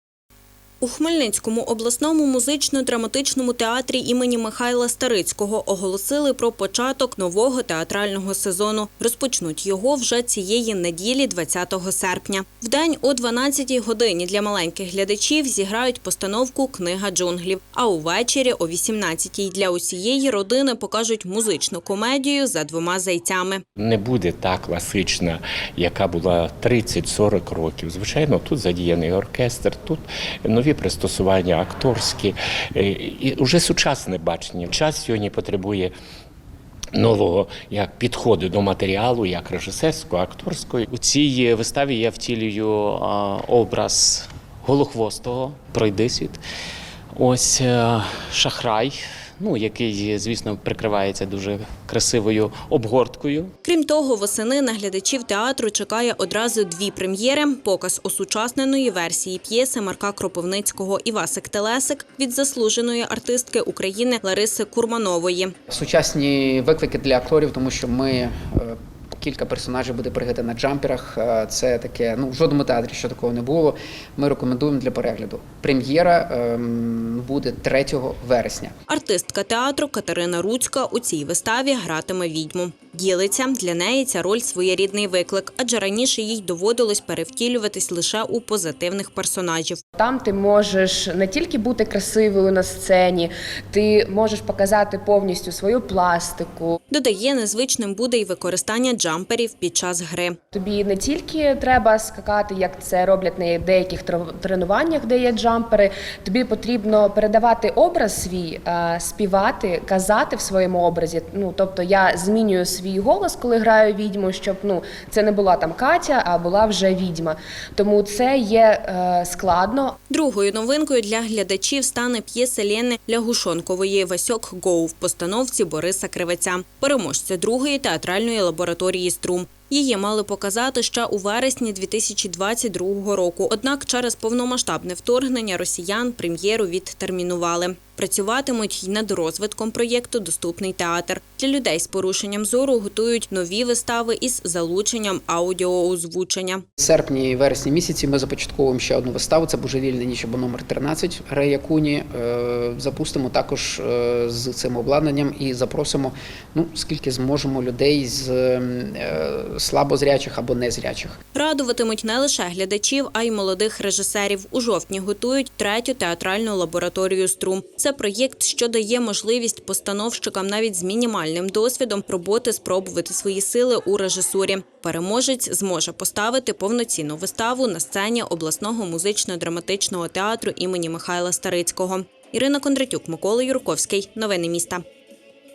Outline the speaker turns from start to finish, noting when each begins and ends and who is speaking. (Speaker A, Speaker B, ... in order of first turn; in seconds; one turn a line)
Speaker A: 0.8-23.6
Speaker B: 23.8-35.9
Speaker B: 36.9-40.8
Speaker C: 40.9-46.4
Speaker C: 47.1-53.5
Speaker A: 53.6-65.5
Speaker D: 65.7-78.7
Speaker A: 78.9-89.8
Speaker E: 89.9-96.7
Speaker A: 96.9-100.3
Speaker E: 100.5-119.9
Speaker A: 120.1-146.6
Speaker D: 146.8-161.2
Speaker A: 161.3-184.8